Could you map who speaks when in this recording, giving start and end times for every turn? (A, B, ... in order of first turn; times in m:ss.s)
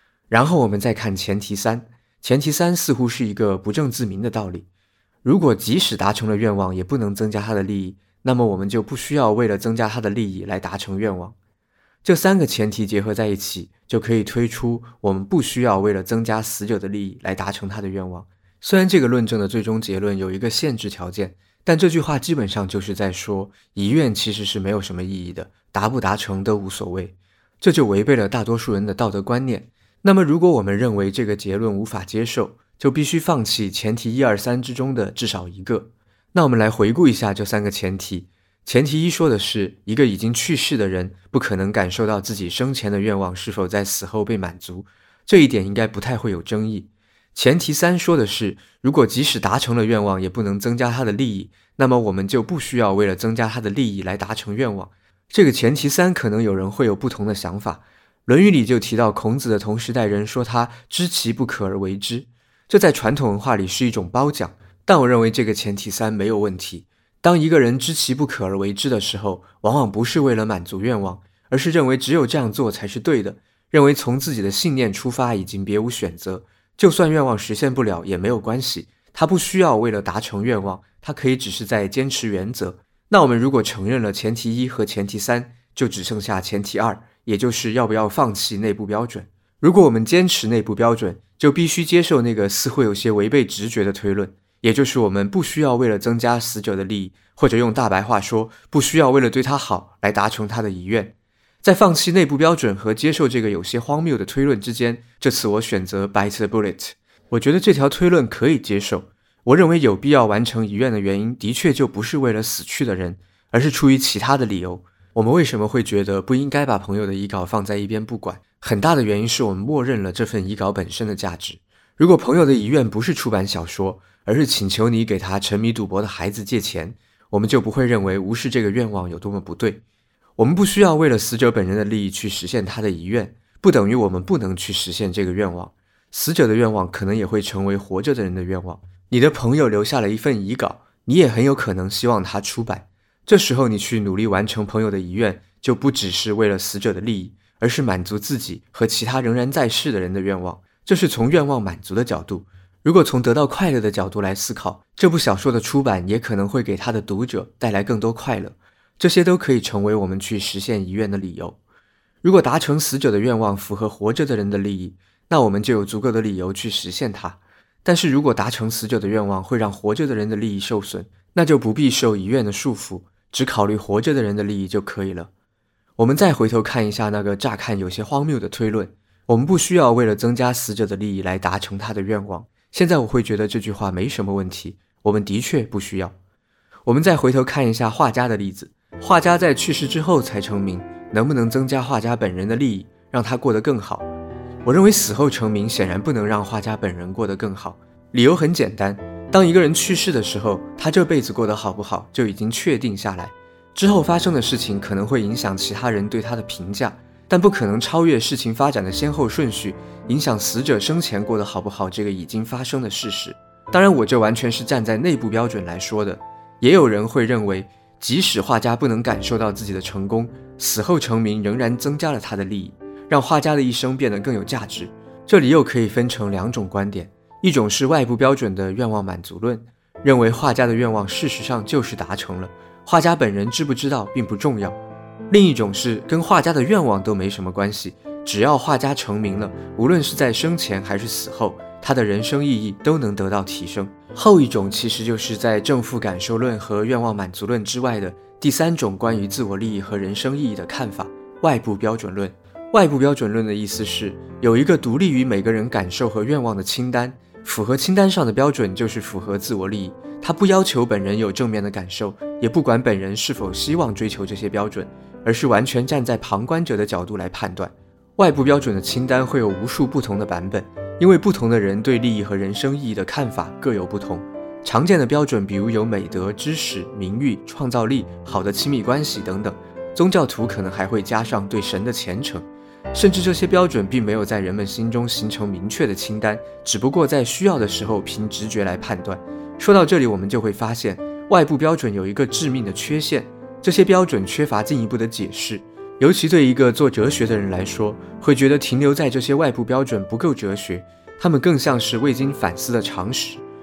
0:00.3-0:04.7 A
0:05.2-0:11.4 A
0:12.0-2:09.8 A
2:10.4-2:41.6 A
2:42.2-2:55.3 A
2:56.0-3:06.1 A
3:06.8-3:14.1 A
3:14.6-3:54.8 A
3:55.3-5:03.4 A